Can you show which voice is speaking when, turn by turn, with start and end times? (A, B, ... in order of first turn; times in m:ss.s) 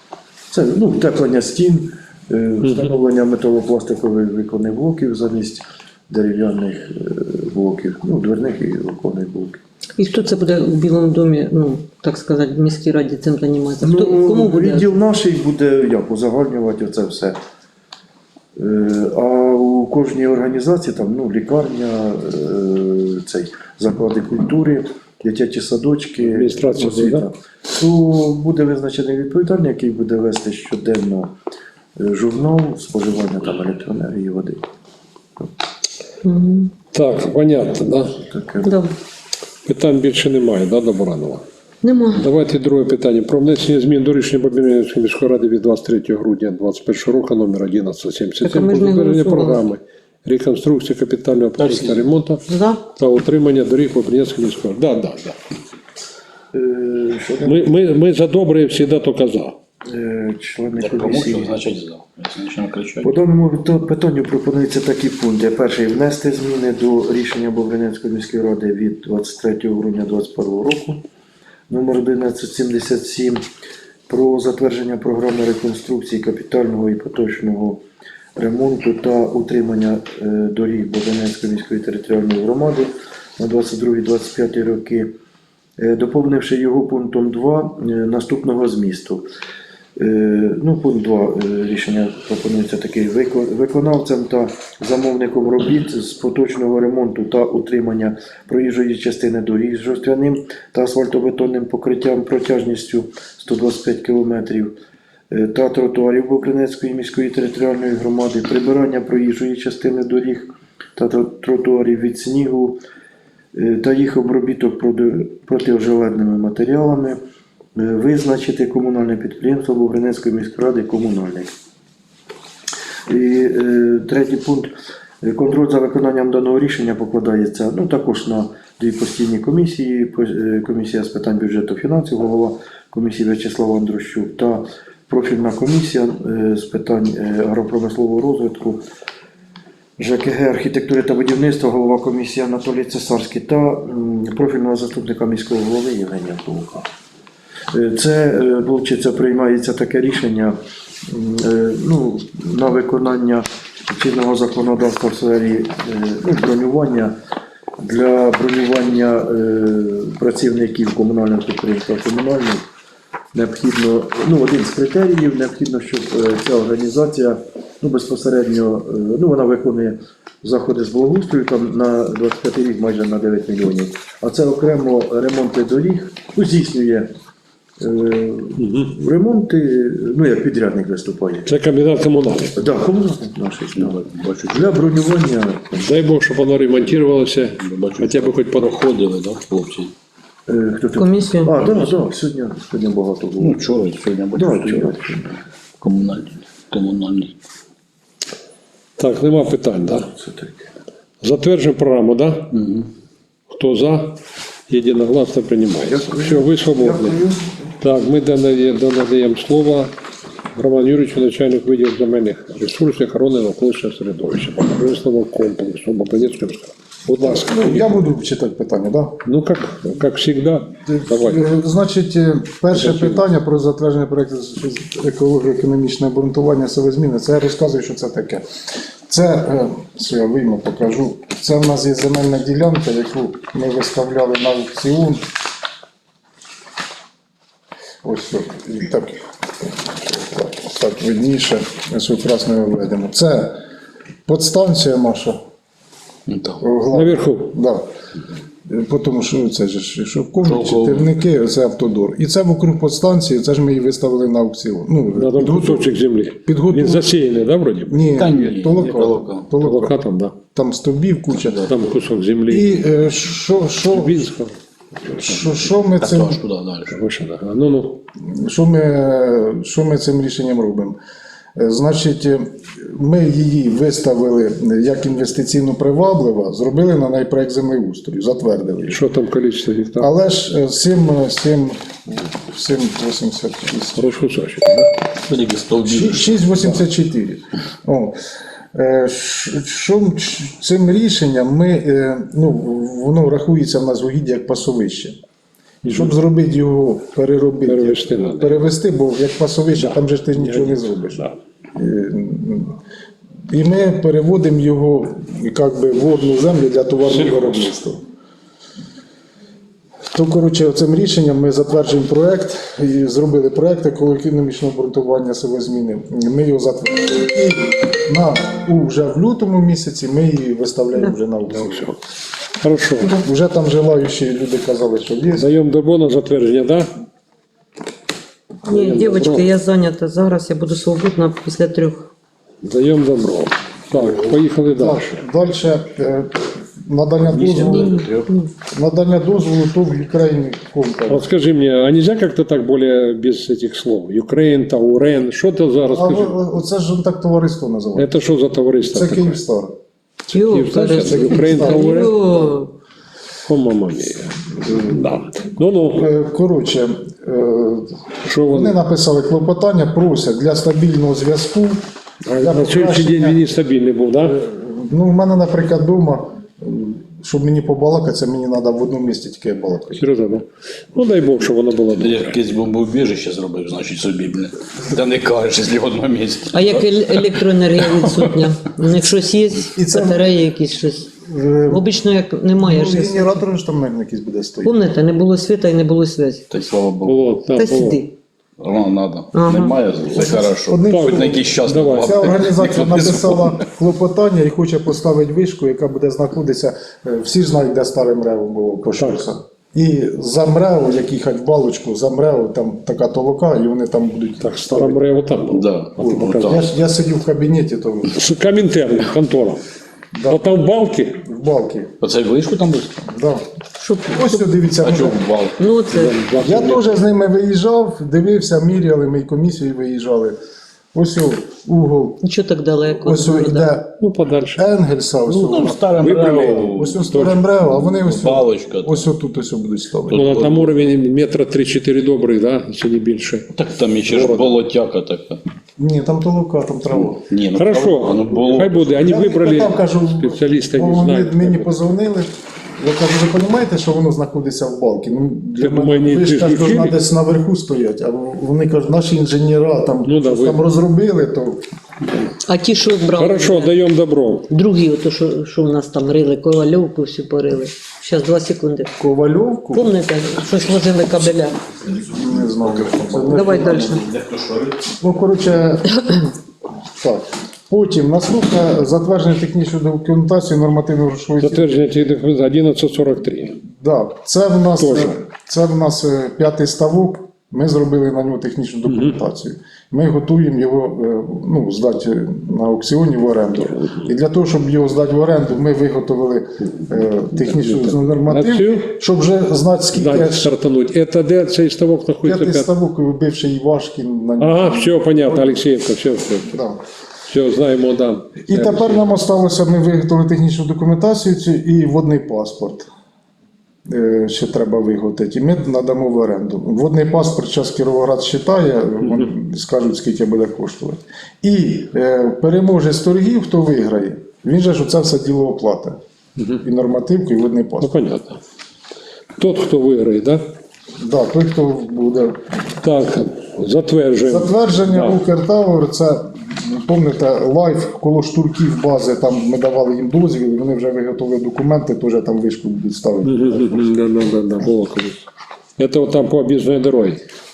0:00.5-0:09.6 A
0:10.0-0:14.9 B
0:13.8-0:17.4 A
0:18.6-0:31.3 A
0:26.3-0:27.2 C
0:32.0-0:34.6 A
0:36.2-0:36.7 B
0:36.9-0:38.2 C
0:38.1-0:38.7 A
0:38.6-0:38.9 B
0:39.6-0:41.4 C
0:41.8-0:42.2 B
0:42.2-0:52.4 C
0:48.4-0:49.6 B
0:51.6-0:52.0 D
0:52.5-0:52.8 B
0:53.0-0:55.4 C
0:56.5-0:57.7 A
0:57.4-0:59.6 C
0:59.9-1:01.6 A
1:00.8-1:03.1 D
1:03.0-1:11.0 A
1:11.7-1:13.4 A
1:14.1-1:17.8 A
1:18.4-1:25.1 A
1:25.8-1:29.2 A
1:30.0-1:44.7 A
1:45.3-1:52.8 A
1:53.6-1:57.2 A
1:57.8-2:01.5 A
2:03.1-2:04.7 A
2:05.2-2:18.8 A
2:20.0-2:26.9 A
2:27.7-2:37.2 A
2:37.8-2:42.6 A
2:43.3-2:57.1 A
2:57.8-3:01.5 A
2:58.6-2:58.9 C
3:01.4-3:02.6 C
3:02.6-3:05.9 A
3:03.8-3:04.8 D
3:05.8-3:08.7 C
3:07.6-3:09.9 D
3:10.5-3:13.6 A
3:11.0-3:11.7 B
3:13.4-3:15.2 D
3:14.3-3:15.3 A
3:15.8-3:17.4 D
3:19.0-3:20.1 C
3:20.1-3:20.7 A
3:21.2-3:22.5 C
3:22.5-3:22.9 D
3:23.5-3:24.2 C
3:24.7-3:27.2 C
3:25.9-3:27.5 A
3:27.8-3:29.9 C
3:30.6-3:37.9 C
3:37.2-3:39.2 E
3:39.2-3:41.4 C
3:40.9-3:48.4 E
3:42.7-3:43.2 C
3:49.1-3:55.2 E
3:58.0-3:59.2 E
3:59.8-4:03.6 E
4:04.3-4:05.4 E
4:06.3-4:06.6 D
4:06.6-4:07.8 E
4:06.9-4:07.6 C
4:08.7-4:15.9 E
4:10.4-4:11.1 D
4:15.2-4:18.2 C
4:16.4-4:17.2 E
4:17.9-4:20.0 E
4:18.1-4:19.5 D
4:19.6-4:20.4 C
4:20.5-4:21.7 E
4:21.4-4:21.7 D
4:21.7-4:22.9 C
4:22.5-4:24.3 E
4:23.9-4:24.6 C
4:25.1-4:26.4 E
4:25.1-4:27.0 D
4:26.9-4:28.0 C
4:28.2-4:31.0 E
4:31.6-4:39.0 E
4:38.9-4:40.1 C
4:40.0-4:44.1 E
4:44.0-4:44.9 C
4:45.2-4:46.8 D
4:45.8-4:48.2 E
4:48.7-4:55.2 E
4:55.8-4:56.1 C
4:55.9-5:01.2 E
4:57.7-4:58.7 C
4:59.8-5:01.4 C
5:01.8-5:02.8 E
5:03.5-5:08.0 E
5:07.1-5:07.7 C
5:10.1-5:21.9 E
5:21.5-5:22.0 C
5:22.6-5:23.1 C
5:23.0-5:25.5 E
5:25.4-5:26.9 C
5:28.7-5:32.1 B
5:28.7-5:29.5 C
5:32.6-5:35.2 C
5:33.9-5:38.0 E
5:37.2-5:38.3 D
5:37.7-5:38.5 B
5:38.7-5:41.3 E
5:41.1-5:46.4 C
5:45.9-5:48.1 E
5:48.0-5:49.4 C
5:48.9-5:49.7 E
5:50.3-5:52.1 C
5:50.3-5:52.7 B
5:50.7-5:52.3 E
5:53.5-5:56.0 C
5:54.6-5:55.1 E
5:55.9-6:01.8 E
5:58.2-5:58.8 C
6:02.2-6:04.4 C
6:02.3-6:03.4 E
6:04.2-6:10.0 E
6:10.0-6:12.4 C
6:12.0-6:18.4 D
6:16.5-6:21.1 B
6:19.8-6:20.3 E
6:21.1-6:21.9 E
6:21.7-6:23.4 B
6:22.6-6:24.8 E
6:24.6-6:26.5 B
6:26.5-6:27.3 D
6:27.0-6:28.0 C
6:27.6-6:28.2 B
6:28.6-6:33.6 D
6:29.3-6:29.8 B
6:30.1-6:45.0 E
6:30.9-6:32.5 C
6:38.9-6:39.2 C
6:44.4-6:46.6 C
6:45.5-6:46.6 D
6:46.0-6:48.1 E
6:48.1-6:49.6 C
6:50.2-6:50.4 E
6:50.2-6:51.2 C
6:51.2-6:51.9 E
6:52.0-6:53.0 D
6:53.1-6:53.4 E
6:53.8-6:54.4 B
6:54.1-6:55.2 E
6:54.8-6:55.6 D
6:55.6-6:56.2 B
6:55.9-6:56.9 C
6:56.4-7:00.4 E
7:00.9-7:02.2 E
7:02.2-7:03.7 B
7:03.0-7:04.0 E
7:04.0-7:04.7 C
7:04.6-7:10.3 E
7:05.3-7:09.1 D
7:06.0-7:06.7 C
7:10.1-7:10.8 D
7:10.1-7:13.5 C
7:13.5-7:15.4 D
7:14.1-7:14.6 E
7:15.8-7:17.2 E
7:16.9-7:19.0 D
7:17.5-7:21.7 C
7:19.0-7:31.6 E
7:25.6-7:27.0 C
7:30.0-7:30.6 C
7:32.4-7:33.8 B
7:33.2-7:34.5 C
7:34.5-7:38.9 B
7:39.0-7:40.0 E
7:39.7-7:41.6 B
7:42.0-7:44.9 D
7:42.1-7:44.0 E
7:43.3-7:44.0 B
7:45.0-7:46.1 E
7:47.0-7:51.7 E
7:51.4-7:53.6 C
7:53.7-8:10.5 E
7:54.8-7:55.2 C
7:58.9-7:59.2 C
8:03.7-8:04.1 C
8:07.4-8:08.9 C
8:10.0-8:12.7 C
8:12.2-8:15.7 E
8:14.4-8:16.6 C
8:16.5-8:16.8 E
8:17.3-8:19.0 C
8:18.4-8:22.9 E
8:23.9-8:36.0 E
8:36.4-8:36.6 C
8:36.6-8:37.9 E
8:37.8-8:38.4 C
8:39.4-8:40.4 C
8:41.0-8:42.4 E
8:42.8-8:45.2 C
8:44.3-8:53.9 E
8:53.2-8:55.2 C
8:55.8-8:57.2 C